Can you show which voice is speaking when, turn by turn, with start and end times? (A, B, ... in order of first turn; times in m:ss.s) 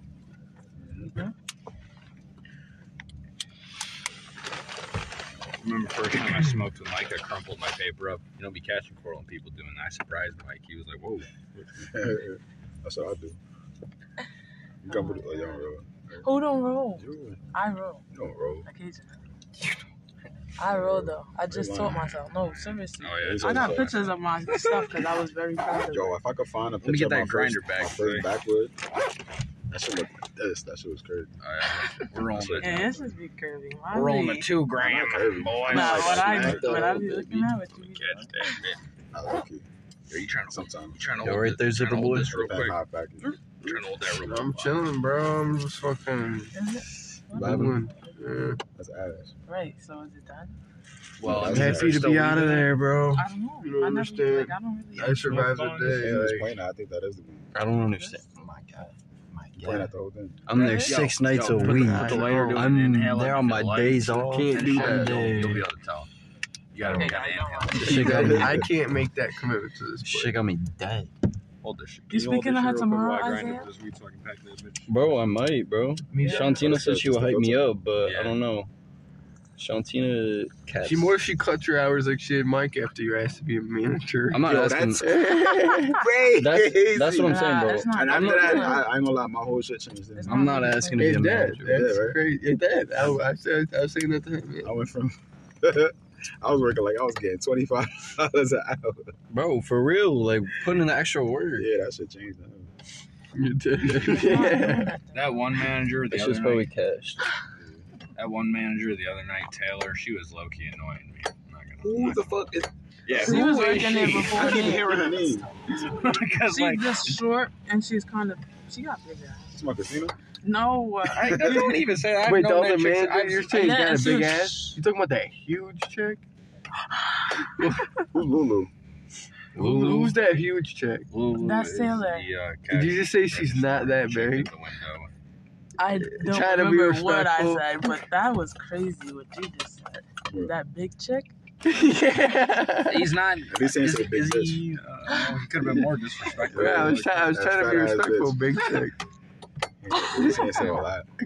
0:00.8-0:01.1 A
0:05.6-0:11.3 B
0:11.5-0:13.4 A
0:14.8-0:16.3 A
0:14.9-0:15.6 C
0:16.2-0:18.0 C
0:17.0-0:17.4 A
0:18.1-0:18.6 A
0:18.6-0:19.2 C
0:20.6-0:26.2 C
0:20.6-0:22.1 A
0:22.4-0:24.8 B
0:23.1-0:24.1 A
0:25.8-0:28.7 A
0:26.8-0:28.3 B
0:29.7-0:31.3 A
0:31.4-0:33.0 B
0:32.0-0:33.1 A
0:32.6-0:34.5 C
0:33.9-0:36.5 B
0:34.7-0:37.1 A
0:35.7-0:38.6 C
0:36.3-0:37.6 D
0:37.8-0:38.8 B
0:39.1-0:39.6 A
0:40.1-0:42.8 B
0:40.5-0:41.0 A
0:41.2-0:42.6 D
0:42.1-0:43.4 A
0:43.6-0:44.9 B
0:44.1-0:46.5 E
0:46.5-0:48.1 C
0:47.3-0:48.6 E
0:47.3-0:47.8 D
0:47.4-0:47.7 A
0:48.7-0:49.3 A
0:49.5-0:50.6 C
0:51.2-0:52.5 B
0:51.2-0:52.3 A
0:51.2-0:52.7 D
0:51.3-0:56.5 E
0:53.1-0:55.6 C
0:55.0-0:56.1 B
0:55.8-0:57.5 A
0:57.5-0:59.9 D
0:59.6-1:00.5 A
1:00.4-1:05.6 D
1:00.5-1:01.0 C
1:00.5-1:06.1 B
1:01.5-1:02.8 E
1:04.3-1:05.6 E
1:06.7-1:08.0 B
1:06.8-1:07.2 D
1:06.9-1:08.0 C
1:07.7-1:08.7 D
1:07.8-1:10.3 E
1:07.8-1:08.7 A
1:10.0-1:11.1 D
1:11.6-1:15.2 B
1:12.1-1:13.7 C
1:14.9-1:18.7 D
1:16.1-1:16.8 E
1:16.2-1:16.5 C
1:16.4-1:17.7 A
1:18.0-1:18.4 B
1:19.6-1:21.1 D
1:20.8-1:26.0 E
1:24.3-1:25.2 D
1:24.3-1:30.7 A
1:26.4-1:28.7 D
1:27.2-1:28.9 C
1:30.2-1:31.5 C
1:30.2-1:32.0 D
1:31.0-1:34.7 E
1:31.6-1:32.2 A
1:34.6-1:39.1 A
1:39.3-1:41.7 D
1:41.6-1:42.7 A
1:43.3-1:44.9 E
1:43.9-1:45.6 C
1:45.1-1:46.7 B
1:46.1-1:47.2 D
1:47.5-1:47.8 A
1:48.2-1:52.3 B
1:51.8-1:56.0 A
1:53.1-1:57.2 B
1:53.2-1:55.0 C
1:56.5-1:59.6 C
1:59.5-2:00.2 A
2:00.4-2:01.7 C
2:01.1-2:04.8 B
2:01.1-2:01.8 A
2:02.2-2:06.2 E
2:03.5-2:04.6 C
2:07.1-2:07.5 C
2:07.6-2:08.0 E
2:08.1-2:08.7 A
2:09.5-2:10.2 B
2:09.5-2:11.1 E
2:11.1-2:15.1 B
2:11.3-2:12.3 C
2:12.7-2:14.5 E
2:15.8-2:21.3 C
2:16.1-2:17.7 E
2:20.3-2:20.5 A
2:21.6-2:23.1 E
2:22.8-2:27.3 B
2:23.5-2:24.6 A
2:26.4-2:28.4 A
2:26.5-2:29.0 E
2:29.8-2:31.1 A
2:30.2-2:30.6 C